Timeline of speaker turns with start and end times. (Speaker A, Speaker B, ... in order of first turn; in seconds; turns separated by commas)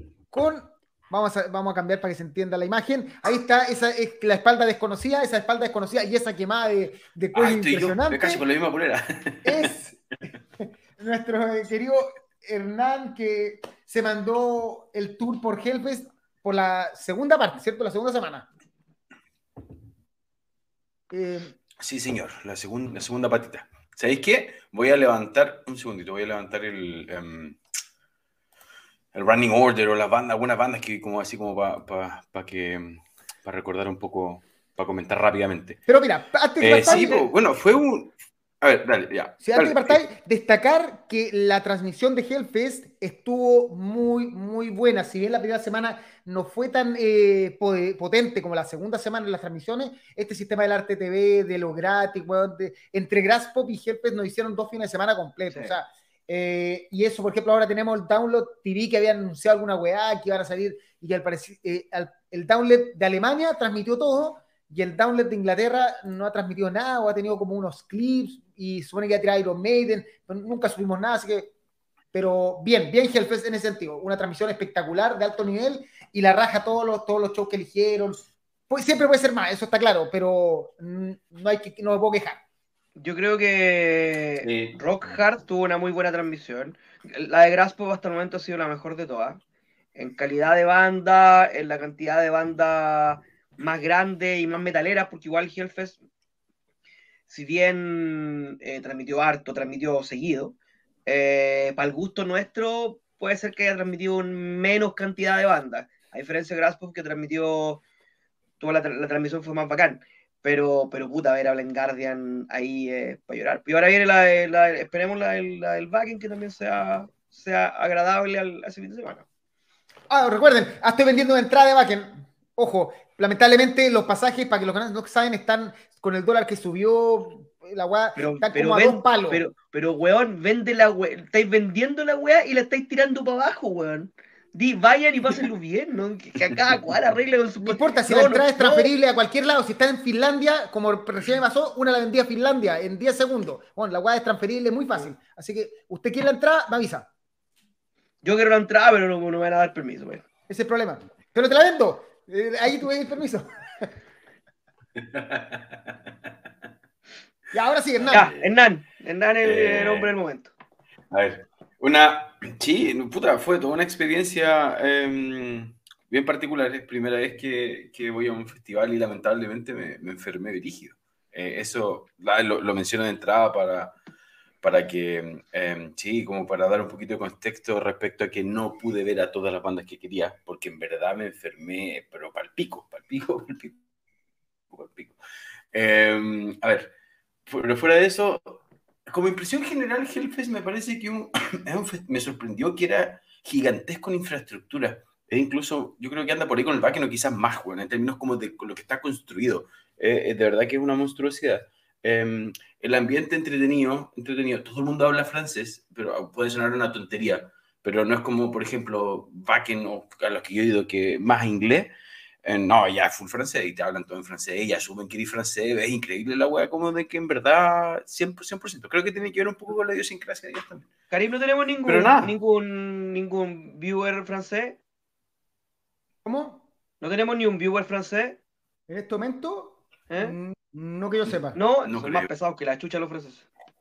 Speaker A: 0.3-8.4, Speaker B: 7.3-9.7, Speaker A: 9.4-10.0, Speaker A: 10.6-18.5, Speaker A: 21.1-21.6, Speaker B: 21.8-27.6, Speaker B: 29.1-35.8, Speaker A: 35.9-37.2, Speaker B: 36.6-40.0, Speaker C: 36.9-37.3, Speaker A: 39.4-71.5, Speaker A: 72.1-82.4, Speaker C: 83.0-89.4, Speaker B: 84.4-84.8, Speaker C: 90.0-96.0, Speaker C: 97.3-100.5, Speaker C: 101.1-107.8, Speaker C: 108.6-119.2, Speaker A: 120.1-129.4, Speaker C: 128.2-138.9, Speaker A: 137.6-147.1, Speaker C: 148.2-150.2, Speaker A: 150.5-153.9, Speaker B: 155.0-156.3, Speaker A: 157.5-158.3, Speaker B: 158.0-158.5, Speaker C: 158.1-160.5, Speaker B: 159.4-160.1, Speaker B: 161.1-173.9, Speaker B: 174.6-183.8, Speaker B: 184.7-185.2, Speaker B: 185.7-186.9, Speaker B: 187.5-211.9, Speaker B: 212.4-220.9, Speaker C: 221.1-224.8, Speaker B: 221.9-222.3, Speaker A: 226.2-226.6, Speaker C: 227.0-228.4, Speaker A: 228.9-231.6, Speaker C: 230.1-230.3, Speaker C: 231.6-233.5, Speaker B: 231.8-232.3